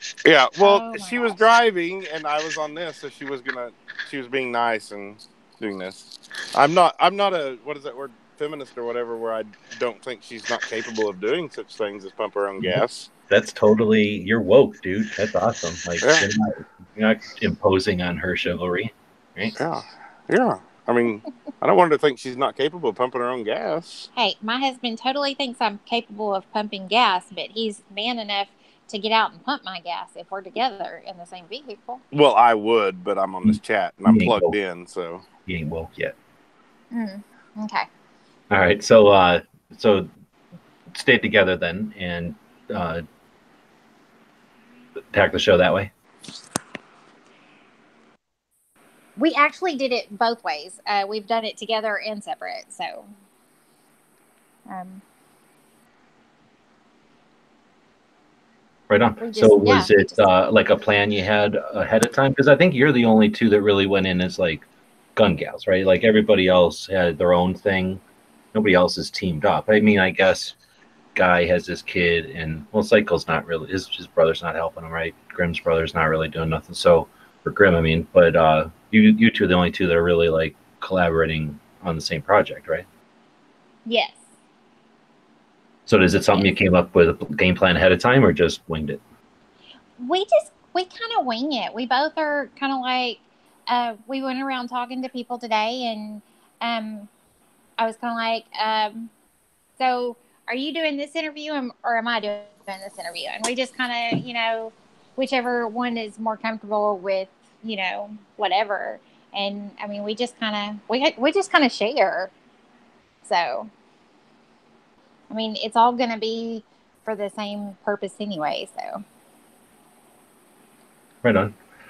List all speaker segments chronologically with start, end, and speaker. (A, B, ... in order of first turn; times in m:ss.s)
0:00.2-0:13.1 A
0:00.6-0:01.4 B
0:12.6-0:19.5 C
0:16.0-0:16.3 A
0:19.6-0:24.1 A
0:24.1-0:32.0 B
0:32.1-0:35.3 A
0:33.4-0:34.5 C
0:35.4-0:36.1 C
0:36.9-0:37.9 B
0:38.5-0:40.1 C
0:40.9-0:43.0 C
0:45.1-0:45.9 C
0:49.2-0:53.1 B
0:54.7-0:55.0 B
0:58.9-1:08.0 C
0:59.2-1:00.3 B
1:08.5-1:10.6 C
1:11.1-1:22.8 C
1:23.8-1:24.2 B
1:25.9-1:29.0 C
1:30.0-1:37.1 B
1:37.8-1:39.1 B
1:39.8-1:52.3 B
1:53.2-1:53.7 B
1:55.3-1:59.0 B
2:01.2-2:01.5 C